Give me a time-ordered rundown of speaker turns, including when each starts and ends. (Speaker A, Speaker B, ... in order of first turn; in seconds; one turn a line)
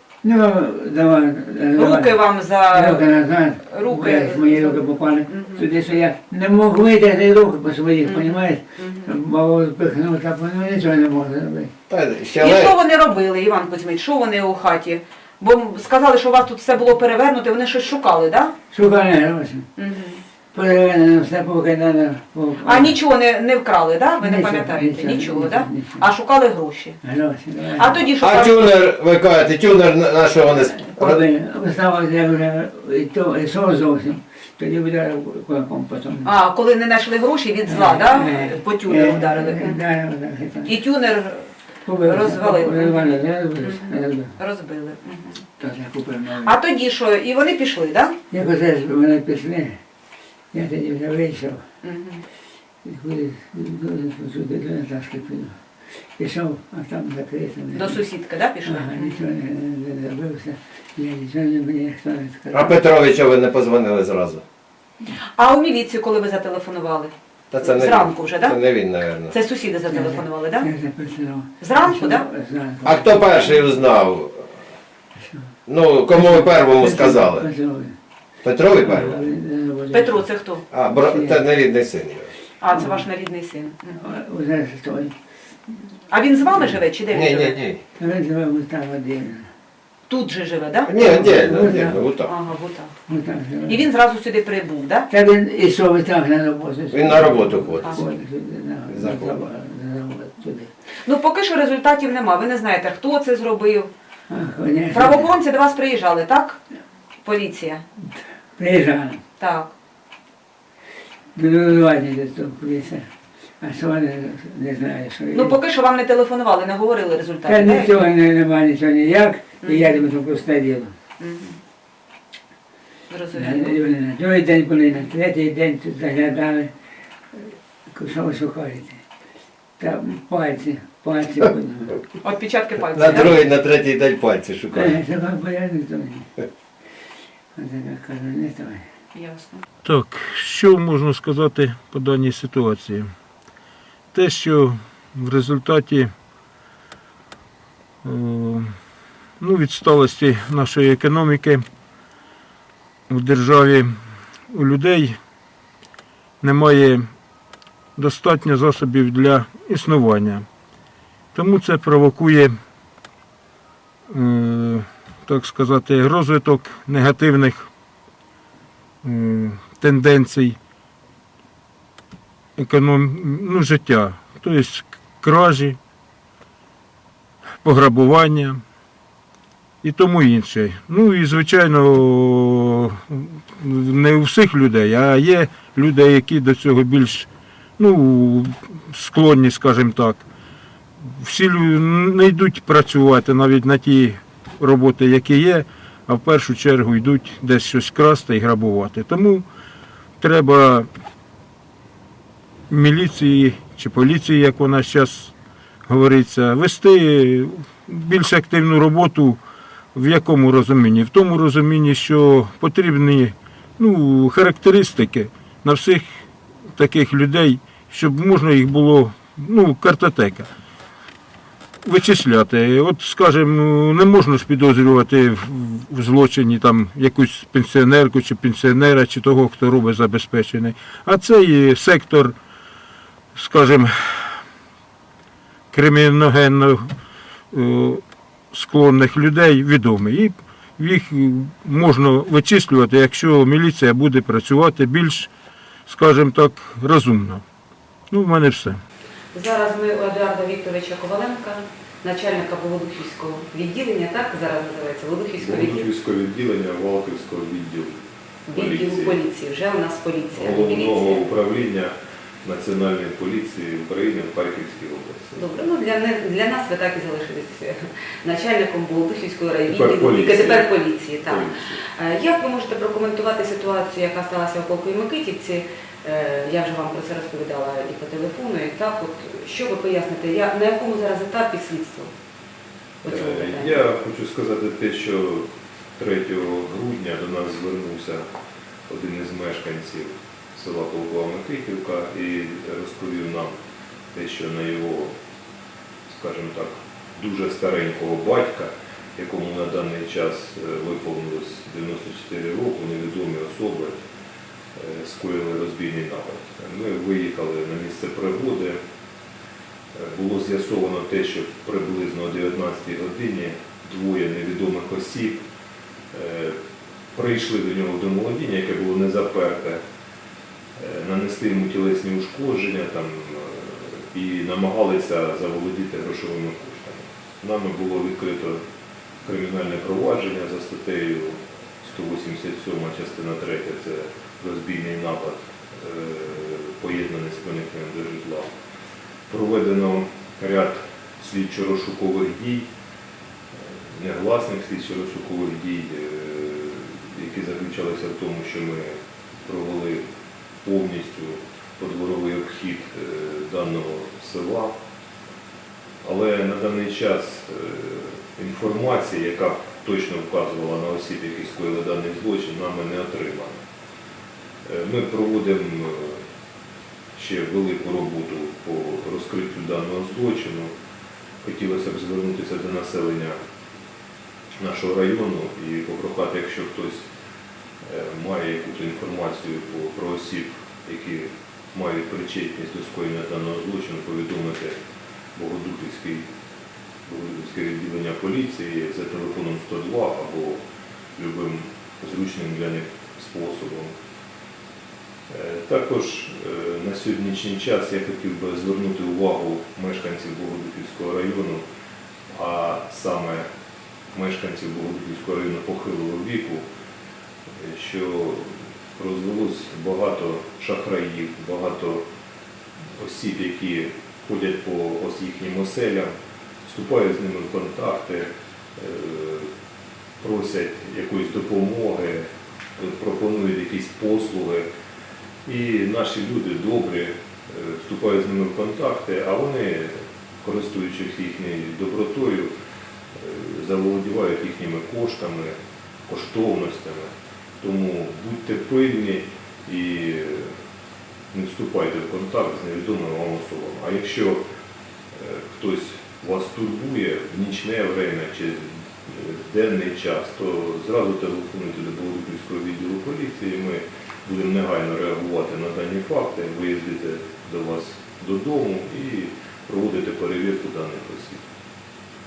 Speaker A: 0.2-11.7
Speaker B: 1.8-5.7
Speaker B: 8.0-9.1
Speaker C: 11.9-12.8
Speaker B: 12.4-18.6
Speaker A: 18.7-19.7
Speaker B: 19.8-20.2
Speaker A: 20.5-22.9
Speaker B: 22.6-27.0
Speaker A: 24.2-26.1
Speaker A: 27.0-28.0
Speaker B: 27.8-28.8
Speaker C: 28.2-31.2
Speaker A: 30.8-36.3
Speaker B: 36.2-39.8
Speaker A: 37.6-40.7
Speaker B: 40.6-45.5
Speaker A: 41.9-44.3
Speaker A: 45.6-46.5
Speaker B: 46.4-48.2
Speaker A: 48.3-49.8
Speaker A: 50.5-51.6
Speaker B: 51.8-52.2
Speaker A: 52.8-55.6
Speaker A: 56.2-58.0
Speaker B: 57.7-59.2
Speaker A: 58.6-62.8
Speaker C: 62.5-64.4
Speaker B: 65.4-68.6
Speaker C: 67.5-69.3
Speaker B: 69.3-70.7
Speaker A: 69.8-73.6
Speaker B: 71.6-72.3
Speaker C: 72.8-74.5
Speaker C: 75.7-77.5
Speaker A: 76.1-78.0
Speaker C: 78.4-79.2
Speaker A: 78.8-80.2
Speaker B: 79.9-80.7
Speaker C: 80.7-82.3
Speaker A: 81.0-81.5
Speaker B: 82.6-84.0
Speaker A: 82.7-83.0
Speaker A: 84.0-85.2
Speaker B: 86.1-87.7
Speaker C: 87.1-87.8
Speaker A: 88.0-89.5
Speaker B: 90.1-91.0
Speaker C: 90.9-92.3
Speaker A: 91.0-92.1
Speaker B: 92.2-92.9
Speaker A: 93.1-93.9
Speaker B: 93.7-95.1
Speaker A: 95.1-100.7
Speaker C: 96.9-98.0
Speaker C: 98.9-99.4
Speaker B: 101.0-103.9
Speaker A: 104.3-105.3
Speaker B: 104.9-106.6
Speaker B: 107.2-107.8
Speaker A: 108.0-109.2
Speaker B: 109.4-109.7
Speaker A: 111.3-113.1
Speaker A: 113.6-115.6
Speaker B: 115.3-118.0
Speaker A: 117.5-120.9
Speaker B: 119.6-120.0
Speaker B: 121.2-121.6
Speaker B: 123.1-123.9
Speaker A: 123.3-126.7
Speaker A: 127.3-129.0
Speaker A: 129.8-132.0
Speaker B: 132.2-133.5
Speaker C: 132.8-135.0
Speaker A: 134.7-136.3
Speaker A: 137.6-138.8
Speaker B: 139.1-139.6
Speaker D: 139.8-143.1
Speaker D: 144.1-146.1
Speaker D: 148.0-148.7
Speaker D: 149.4-151.7
Speaker D: 153.1-153.9
Speaker D: 154.5-155.2
Speaker D: 156.4-157.1
Speaker D: 158.0-160.5
Speaker D: 161.3-162.5
Speaker D: 164.1-167.7
Speaker D: 169.0-170.6
Speaker D: 172.6-175.8
Speaker D: 177.6-178.6
Speaker D: 179.8-187.3
Speaker D: 187.8-190.2
Speaker D: 191.1-199.4
Speaker D: 200.2-200.9
Speaker D: 202.7-205.3
Speaker D: 205.9-209.4
Speaker D: 209.9-216.2
Speaker D: 216.8-220.5
Speaker D: 221.8-232.4
Speaker D: 233.3-234.3
Speaker D: 235.7-236.9
Speaker D: 237.5-245.3
Speaker D: 245.9-247.4
Speaker D: 248.1-248.8
Speaker B: 249.3-255.9
Speaker E: 255.4-257.9
Speaker B: 258.5-261.3
Speaker E: 258.5-259.2
Speaker E: 260.3-265.5
Speaker B: 265.4-282.1
Speaker E: 269.7-271.8
Speaker B: 283.0-283.8
Speaker E: 283.0-288.2
Speaker E: 288.9-293.6
Speaker E: 294.1-295.1
Speaker E: 296.1-304.0
Speaker E: 304.8-308.8
Speaker E: 309.9-315.4
Speaker E: 316.1-316.6
Speaker E: 317.1-319.8
Speaker E: 320.8-328.6
Speaker E: 329.2-338.5
Speaker E: 339.3-342.7
Speaker E: 343.6-350.0
Speaker E: 350.6-354.8
Speaker E: 356.0-363.6
Speaker E: 364.7-366.2
Speaker E: 367.2-370.7
Speaker E: 371.4-373.4
Speaker E: 374.6-377.0
Speaker E: 377.8-384.8
Speaker E: 385.4-386.3
Speaker E: 387.1-390.6
Speaker E: 391.2-393.9
Speaker E: 395.3-401.6
Speaker E: 402.3-403.4
Speaker E: 404.1-406.6
Speaker E: 407.6-412.1
Speaker E: 413.0-416.1
Speaker E: 416.7-419.5
Speaker E: 420.2-422.3
Speaker E: 422.8-424.7
Speaker E: 425.4-432.5
Speaker E: 433.2-435.6
Speaker E: 436.1-440.5
Speaker E: 441.3-444.4
Speaker E: 445.1-461.4